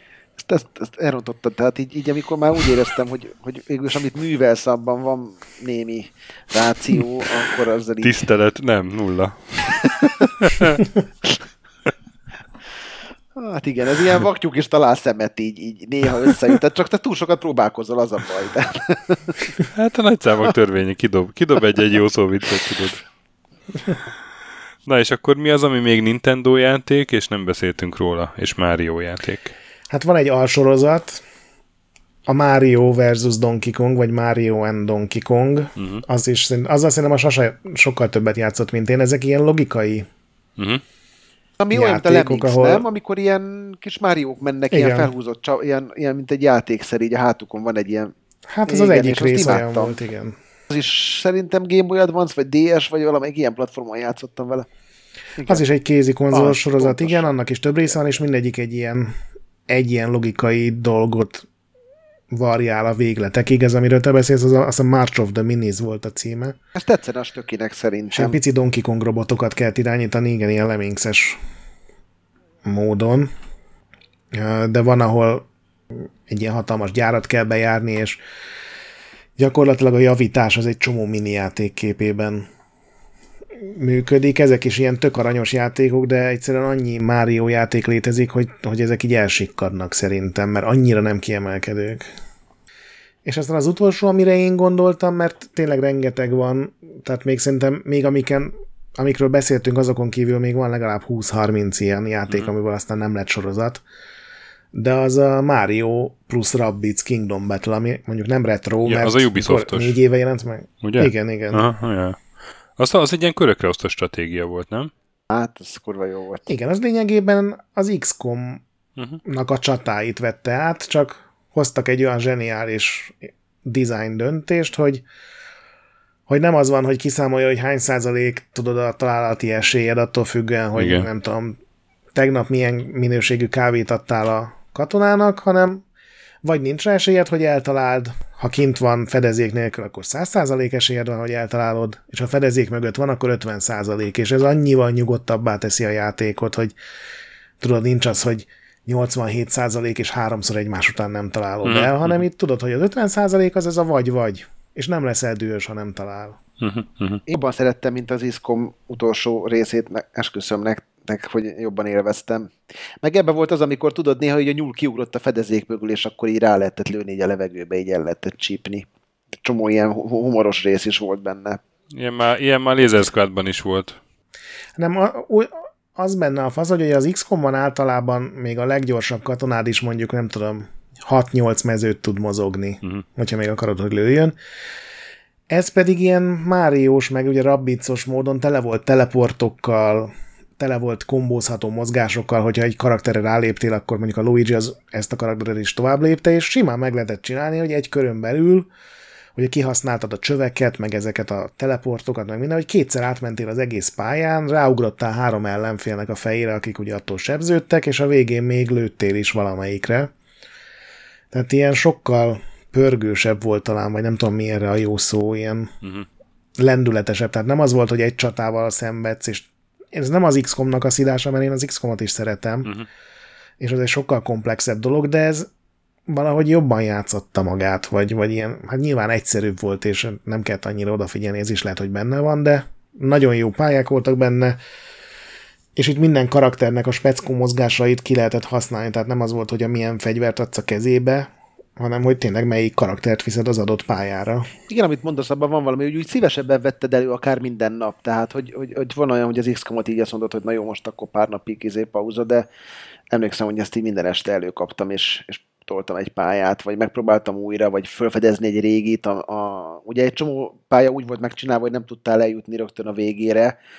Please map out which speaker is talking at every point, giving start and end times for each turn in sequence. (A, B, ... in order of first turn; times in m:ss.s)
0:00.4-0:08.2 A
0:08.0-0:10.8 B
0:09.8-0:10.3 A
0:13.4-0:19.3 A
0:19.7-0:23.0 B
0:24.8-0:29.5 B
0:29.9-0:31.2 C
0:32.3-0:40.1 C
0:35.8-0:36.0 B
0:40.6-0:40.8 B
0:41.6-0:48.1 A
0:41.7-0:42.8 C
0:44.7-0:45.1 C
0:48.5-0:50.4 C
0:48.7-0:49.9 A
0:50.7-0:54.7 A
0:55.4-0:55.6 A
0:55.5-0:59.2 C
0:56.3-0:57.3 A
0:59.7-1:01.4 C
1:02.3-1:06.6 C
1:06.7-1:08.4 A
1:08.1-1:11.4 C
1:12.6-1:13.3 C
1:14.3-1:18.2 C
1:19.4-1:22.5 C
1:23.6-1:32.1 C
1:33.2-1:43.8 C
1:44.7-1:51.6 C
1:48.8-1:50.0 B
1:50.8-1:52.2 B
1:52.8-1:54.9 B
1:55.3-1:56.5 A
1:56.5-1:58.6 C
1:59.2-2:05.0 C
2:06.3-2:11.6 C
2:10.8-2:11.1 B
2:12.1-2:15.8 C
2:16.4-2:26.8 C
2:27.6-2:36.4 C
2:31.6-2:32.2 B
2:36.6-2:37.2 B
2:37.3-2:48.9 A
2:49.4-2:51.6 A
2:51.9-2:54.0 B
2:54.8-3:04.4 C
3:05.5-3:18.7 C
3:19.4-3:30.1 C
3:31.3-3:35.7 C
3:35.8-3:36.1 B
3:36.6-3:42.7 C
3:43.6-3:45.5 C
3:46.1-3:54.6 C
3:55.8-4:04.5 C
4:04.7-4:12.5 A
4:13.1-4:23.6 A